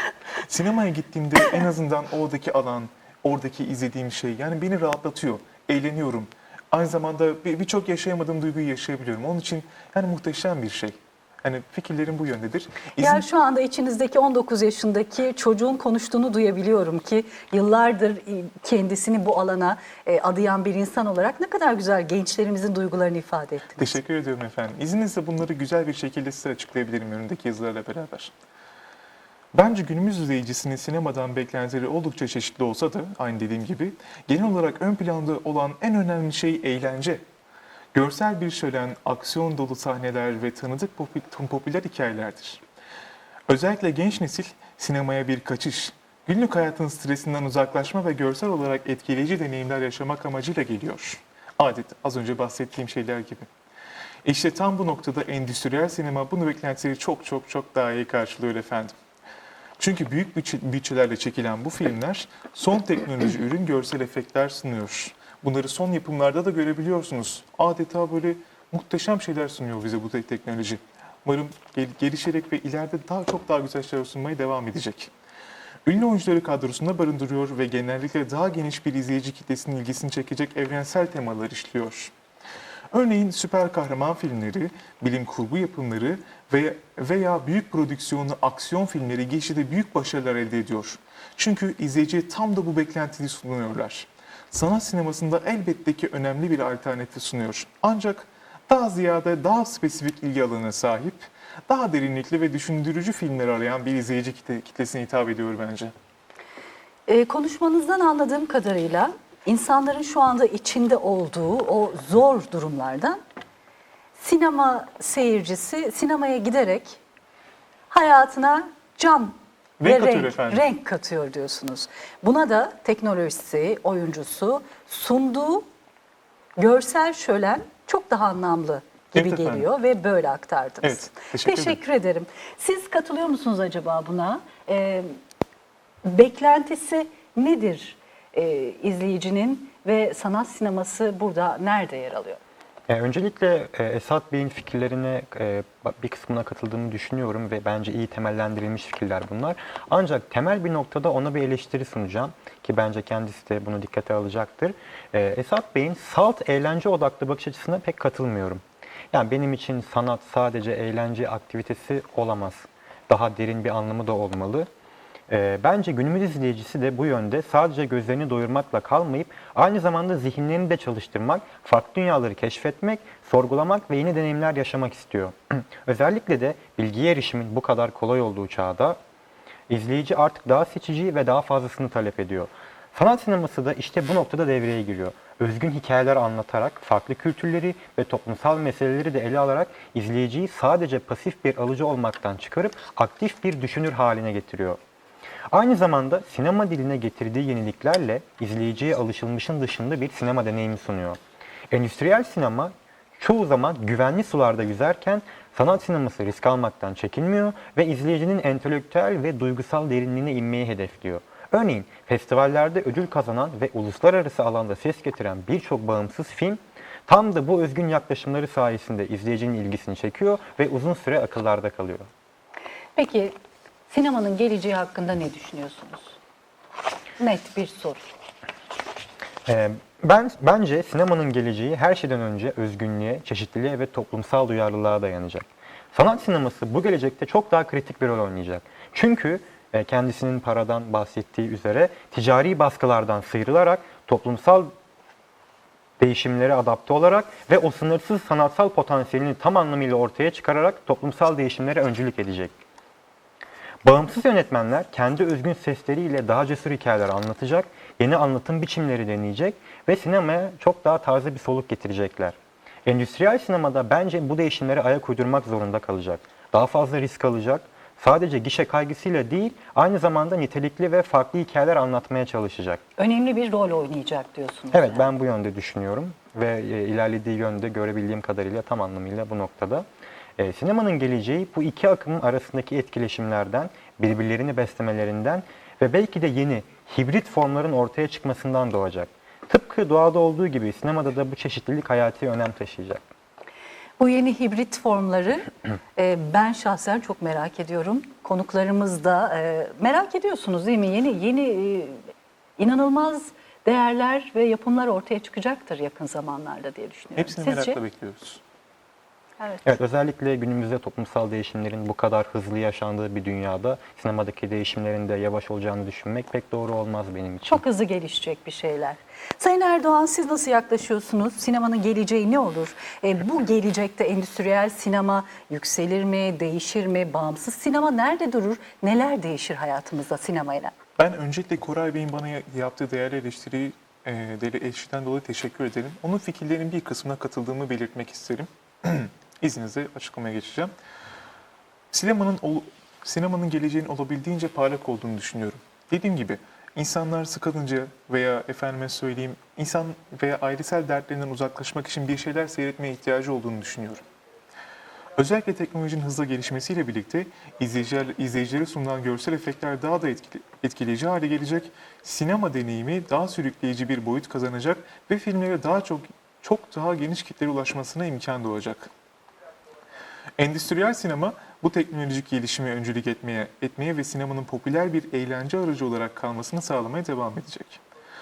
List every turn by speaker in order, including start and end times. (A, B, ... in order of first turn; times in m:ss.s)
0:00.4-0:13.2 A
0:13.0-0:24.0 B
0:23.8-0:28.3 A
0:29.5-0:37.2 A
0:37.9-0:42.6 A
0:43.5-0:53.5 A
0:54.2-0:58.9 A
0:59.8-1:15.1 A
1:15.8-1:22.1 A
1:22.9-1:45.9 A
1:47.1-1:53.2 B
1:54.2-1:57.0 B
1:57.9-2:05.6 B
1:59.8-2:00.6 A
2:06.6-2:15.1 B
2:09.1-2:09.7 A
2:10.8-2:11.8 A
2:16.0-2:22.4 B
2:22.9-2:44.7 C
2:45.3-2:59.0 C
2:59.7-3:14.8 C
3:15.5-3:21.2 C
3:21.7-3:42.1 C
3:43.0-3:43.4 B
3:43.9-3:46.2 B
3:47.2-3:48.1 B
3:49.5-4:04.7 C
4:06.0-4:12.6 C
4:13.8-4:32.8 C
4:33.0-4:35.1 B
4:34.7-4:39.8 C
4:40.4-4:53.0 C
4:54.0-5:02.0 B
5:02.6-5:07.8 B
5:07.2-5:08.4 A
5:09.4-5:09.7 B
5:09.6-5:17.6 C
5:17.4-5:30.7 B
5:31.0-5:40.7 A
5:41.9-5:54.0 A
5:55.2-6:08.9 A
6:10.4-6:17.8 A